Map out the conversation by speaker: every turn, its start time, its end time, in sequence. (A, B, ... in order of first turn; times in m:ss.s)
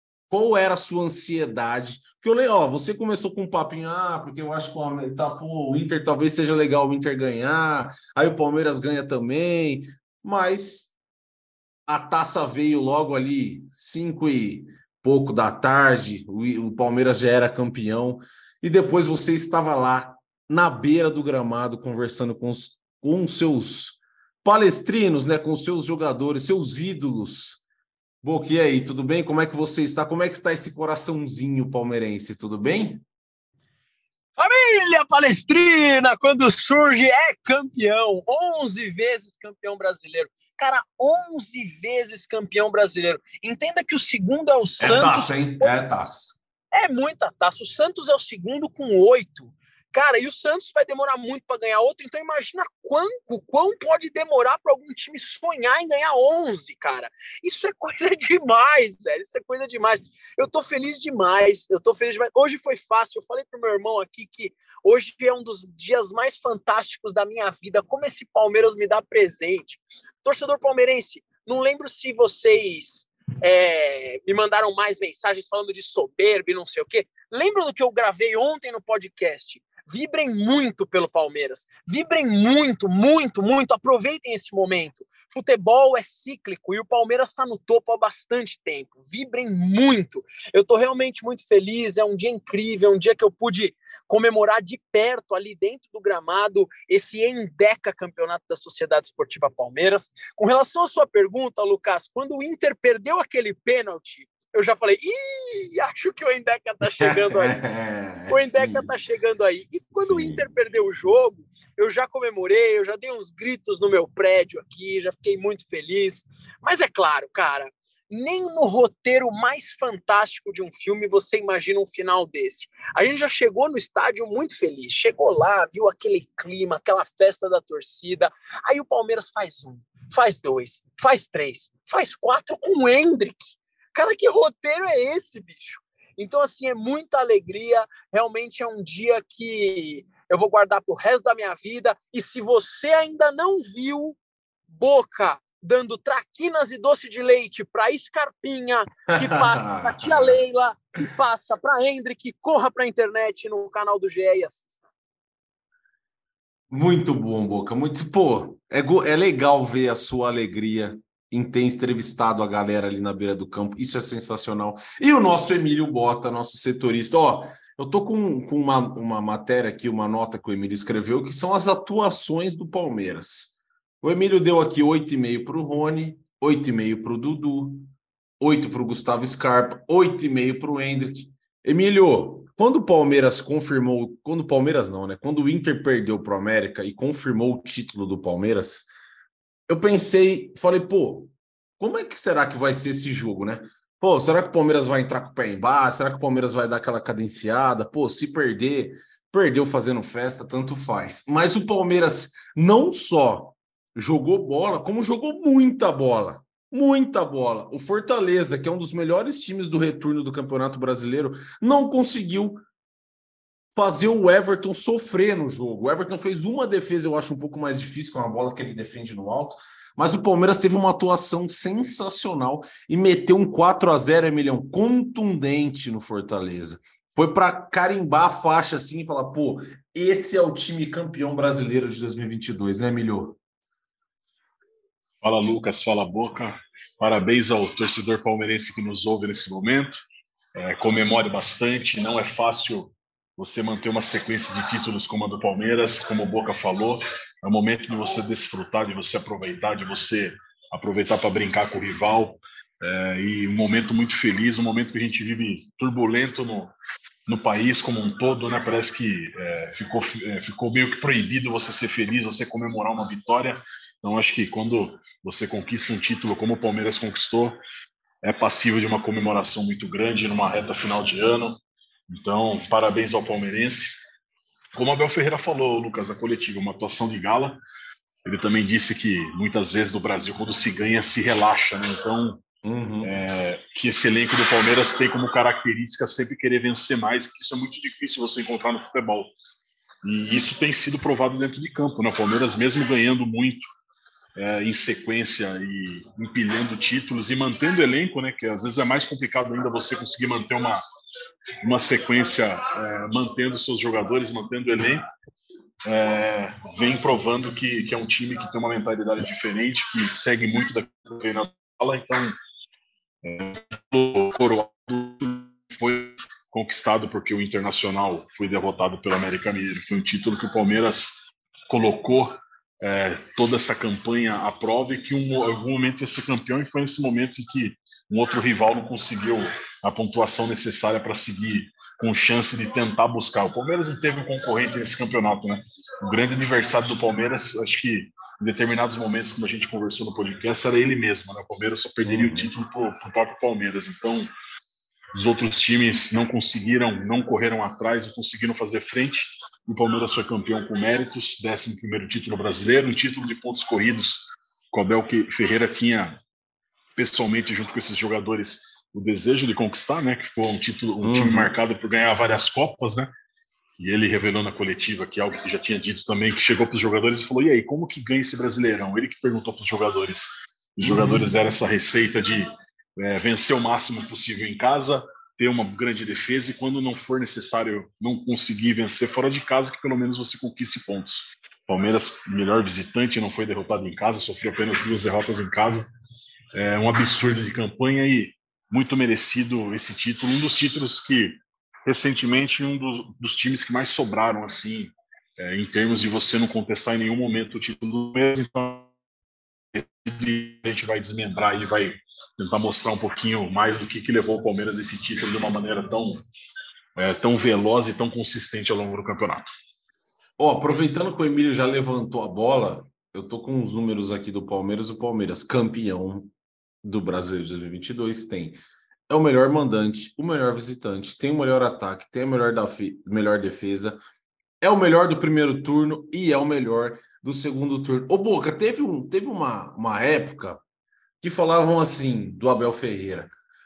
0:00.3-0:10.9 A
0:11.9-0:27.6 A
0:28.2-0:33.0 A
0:34.4-0:45.7 B
0:44.8-0:46.3 A
0:46.7-1:47.6 B
1:46.8-1:48.9 A
1:48.3-2:24.2 B
1:50.0-1:50.4 A
2:24.7-2:34.8 B
2:29.2-2:30.4 A
2:36.7-3:08.9 A
3:09.7-3:32.6 A
3:33.8-3:53.4 A
3:55.2-4:00.0 C
4:00.6-4:16.7 C
4:17.3-4:27.6 C
4:28.2-4:34.0 C
4:34.7-4:37.6 C
4:38.2-4:42.4 C
4:42.6-4:43.1 A
4:43.0-4:49.3 C
4:50.0-4:53.6 C
4:54.4-5:00.8 C
5:01.6-5:05.0 C
5:05.8-5:12.4 C
5:13.2-5:44.3 C
5:42.0-5:42.5 A
5:45.1-5:56.2 C
5:57.0-6:03.1 C
6:01.0-6:01.5 A
6:03.8-6:25.9 C
6:10.8-6:11.3 A
6:26.5-6:38.9 C
6:39.7-6:46.2 C
6:47.0-6:49.5 C
6:50.4-6:56.3 A
6:56.8-7:04.0 A
7:04.6-7:10.6 A
7:11.2-7:13.3 A